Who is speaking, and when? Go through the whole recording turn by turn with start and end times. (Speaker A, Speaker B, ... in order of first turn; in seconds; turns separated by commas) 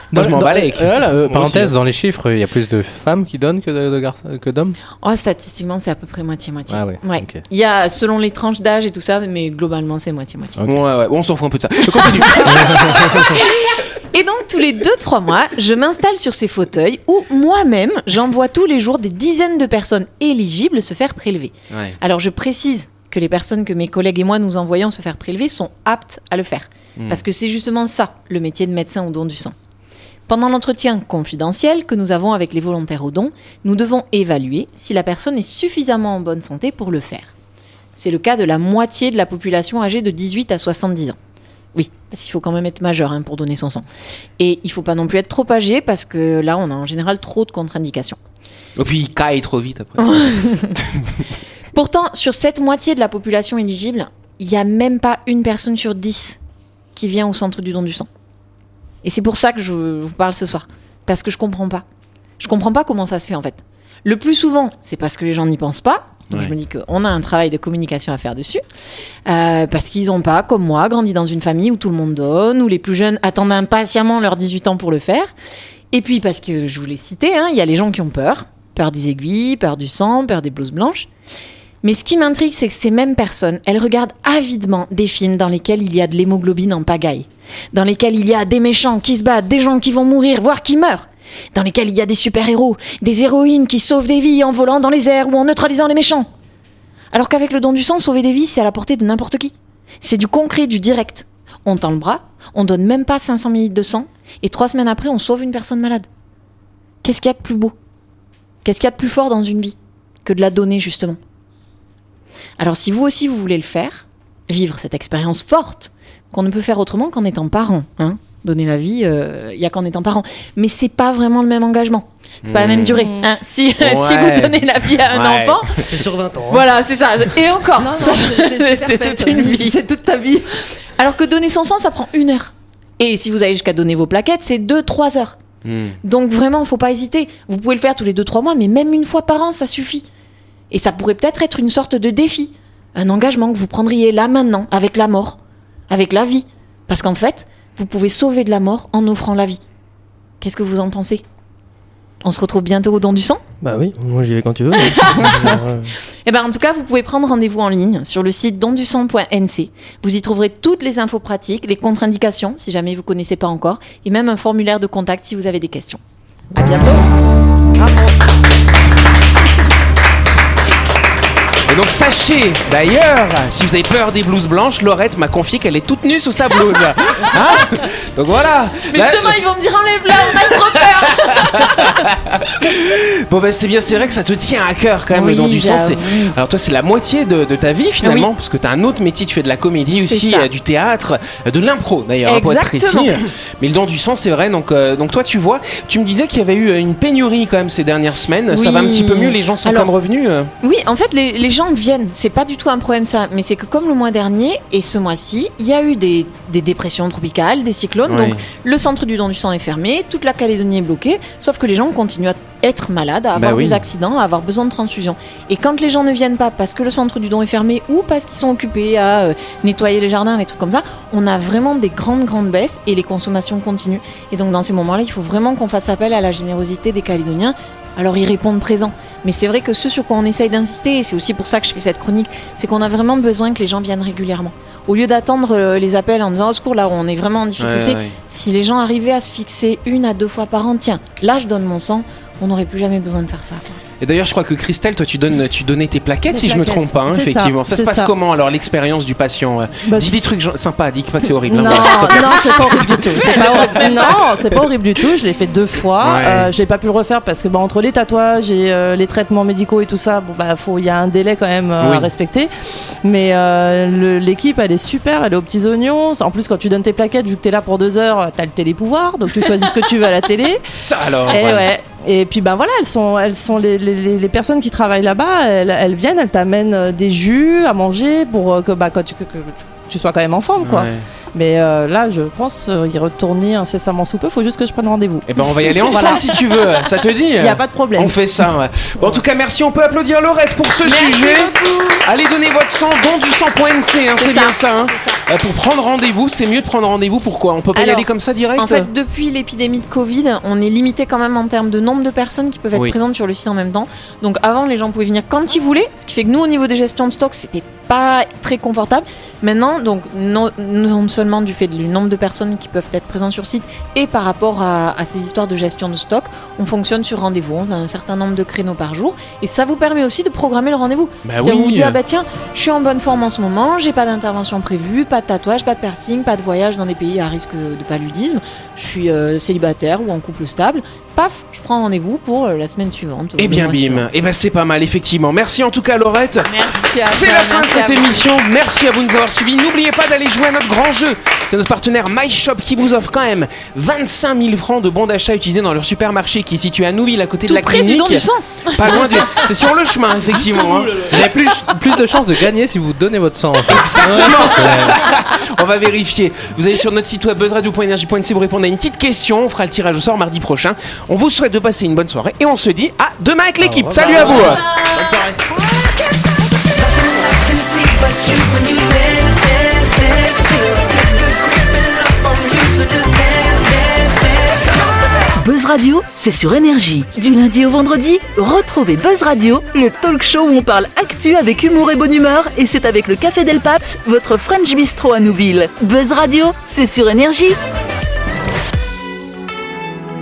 Speaker A: 0.1-4.8, Speaker B: 0.1-1.0, Speaker C: 1.3-1.7, Speaker D: 5.0-10.6, Speaker A: 6.7-7.4, Speaker A: 10.6-10.8, Speaker B: 10.7-13.4, Speaker D: 12.6-29.6, Speaker B: 21.7-22.0, Speaker B: 27.0-27.2, Speaker D: 30.3-37.3, Speaker D: 38.0-41.2, Speaker D: 41.8-43.9, Speaker D: 44.4-48.2, Speaker B: 48.8-51.2, Speaker D: 50.0-50.8, Speaker D: 51.7-56.4, Speaker D: 57.0-58.1, Speaker D: 59.0-61.8, Speaker D: 62.4-68.6, Speaker D: 69.3-75.3, Speaker D: 75.9-81.1, Speaker D: 81.8-96.3, Speaker D: 97.1-106.1, Speaker D: 107.0-107.8, Speaker D: 108.6-111.2, Speaker D: 112.6-125.9, Speaker B: 122.4-123.0, Speaker E: 123.0-123.3, Speaker B: 123.8-125.8, Speaker C: 125.8-126.7, Speaker D: 126.5-129.8, Speaker E: 127.8-130.5, Speaker D: 131.0-135.4, Speaker B: 135.6-136.0, Speaker D: 136.0-140.1, Speaker D: 140.7-145.4, Speaker D: 145.9-149.6, Speaker D: 150.4-151.2, Speaker D: 152.2-153.4, Speaker C: 153.6-155.9, Speaker D: 154.9-155.6, Speaker D: 156.2-166.0, Speaker D: 166.5-167.1, Speaker B: 171.7-179.4, Speaker D: 178.9-182.0, Speaker B: 180.3-200.5, Speaker D: 185.1-186.3, Speaker D: 188.0-188.3, Speaker D: 190.0-190.5, Speaker D: 192.2-193.2, Speaker D: 198.5-199.9, Speaker D: 200.6-243.8, Speaker B: 208.1-208.4, Speaker B: 213.3-213.8, Speaker B: 237.6-238.2, Speaker B: 244.0-254.2, Speaker E: 246.3-248.1, Speaker E: 249.8-250.3, Speaker E: 251.5-262.5, Speaker B: 256.0-256.5, Speaker B: 261.8-262.1, Speaker E: 263.0-270.7, Speaker B: 270.7-271.7, Speaker E: 271.3-285.3, Speaker B: 280.6-281.1, Speaker B: 285.3-291.5, Speaker D: 285.7-286.8, Speaker E: 285.8-286.3, Speaker E: 287.4-288.2, Speaker D: 290.8-292.1, Speaker B: 292.1-298.9, Speaker D: 294.1-295.2, Speaker D: 297.7-334.1, Speaker B: 321.2-322.0, Speaker B: 333.4-336.5, Speaker D: 336.4-338.3, Speaker B: 337.0-351.1, Speaker D: 347.5-349.5, Speaker C: 350.3-351.2, Speaker A: 351.0-355.0, Speaker B: 353.7-364.6, Speaker C: 354.0-354.9, Speaker A: 363.6-364.7, Speaker C: 364.1-365.3, Speaker F: 366.8-387.6